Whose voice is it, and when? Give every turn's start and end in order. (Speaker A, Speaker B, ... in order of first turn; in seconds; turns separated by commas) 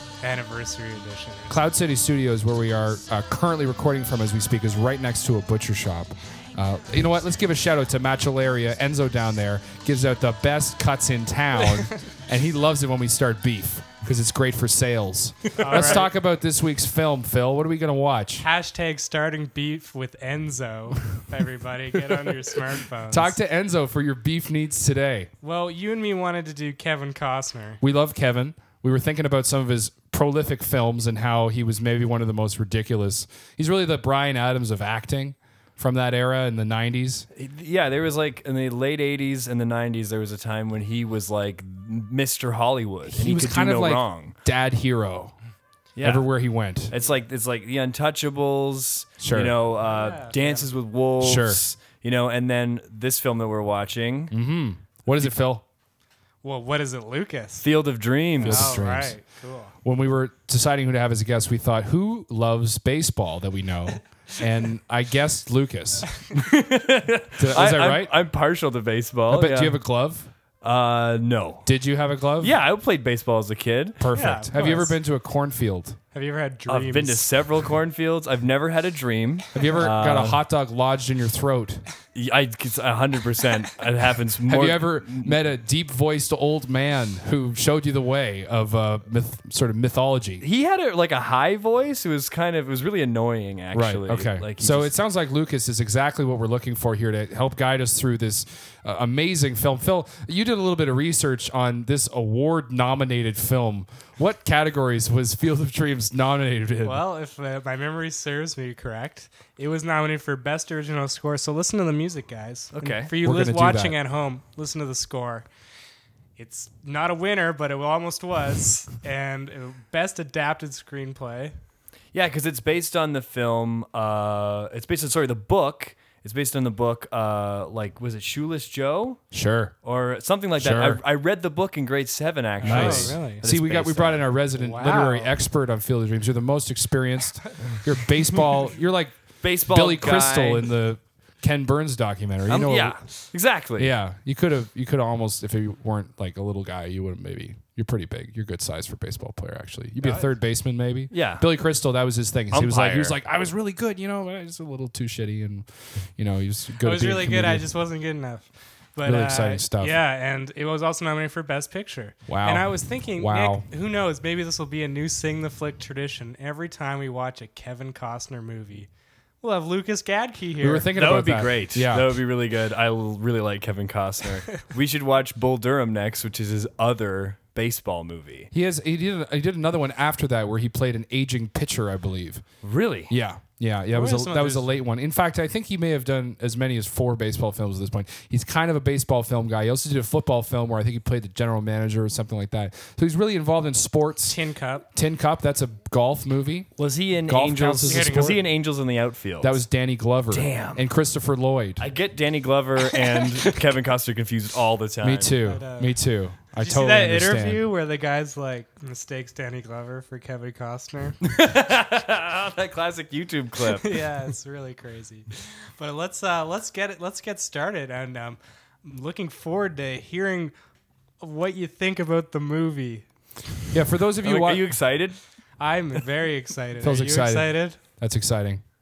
Speaker A: 0.2-1.7, Speaker B: 1.5-18.4, Speaker A: 15.6-16.1, Speaker C: 15.7-16.0, Speaker A: 18.4-23.4, Speaker B: 23.1-25.3, Speaker A: 25.4-27.8, Speaker B: 27.8-37.2, Speaker C: 37.3-44.3, Speaker B: 43.0-45.3, Speaker C: 46.0-46.3, Speaker B: 46.0-46.9, Speaker C: 46.9-54.3, Speaker B: 49.2-49.5, Speaker A: 49.8-50.7, Speaker B: 51.2-51.6, Speaker B: 54.3-55.6, Speaker A: 56.4-57.7, Speaker C: 57.6-58.8, Speaker A: 58.4-59.7, Speaker B: 58.4-59.2, Speaker B: 59.8-66.1, Speaker C: 66.3-69.8, Speaker B: 67.4-68.1, Speaker B: 69.3-70.3, Speaker C: 70.6-71.7, Speaker B: 71.7-72.5, Speaker C: 72.4-74.0, Speaker B: 74.0-76.0, Speaker A: 74.1-75.0, Speaker A: 76.1-77.3, Speaker C: 76.7-80.4, Speaker B: 79.5-81.8, Speaker C: 82.1-85.4, Speaker B: 84.5-90.4, Speaker C: 90.4-94.9, Speaker B: 93.7-107.0, Speaker A: 106.8-115.5, Speaker C: 112.7-113.1, Speaker B: 113.2-114.0, Speaker A: 116.4-121.5, Speaker C: 122.1-129.2, Speaker B: 129.3-129.7, Speaker C: 129.8-134.3, Speaker B: 130.6-131.0, Speaker A: 132.6-133.4, Speaker B: 132.6-143.0, Speaker A: 134.5-135.3, Speaker C: 139.4-140.7, Speaker C: 142.5-143.9, Speaker B: 143.8-157.6, Speaker A: 150.0-150.3, Speaker C: 151.1-151.4, Speaker C: 152.5-153.2, Speaker A: 156.8-168.9, Speaker B: 159.0-160.0, Speaker B: 162.3-163.6, Speaker A: 169.4-170.9, Speaker B: 170.6-172.2, Speaker C: 170.9-178.5, Speaker B: 178.5-182.4, Speaker C: 182.6-183.1, Speaker B: 183.1-194.4, Speaker A: 183.9-184.8, Speaker A: 194.2-194.9, Speaker B: 194.9-196.7, Speaker C: 196.8-199.6, Speaker B: 197.3-198.4, Speaker A: 197.8-198.4, Speaker B: 199.4-201.8, Speaker C: 200.3-200.8, Speaker C: 201.8-205.3, Speaker B: 205.0-207.6, Speaker A: 205.4-206.0, Speaker A: 206.6-211.2, Speaker C: 211.2-214.0, Speaker A: 213.7-220.5, Speaker A: 221.2-223.1, Speaker B: 223.7-224.7, Speaker C: 224.2-225.2, Speaker A: 225.6-227.8, Speaker B: 226.8-228.6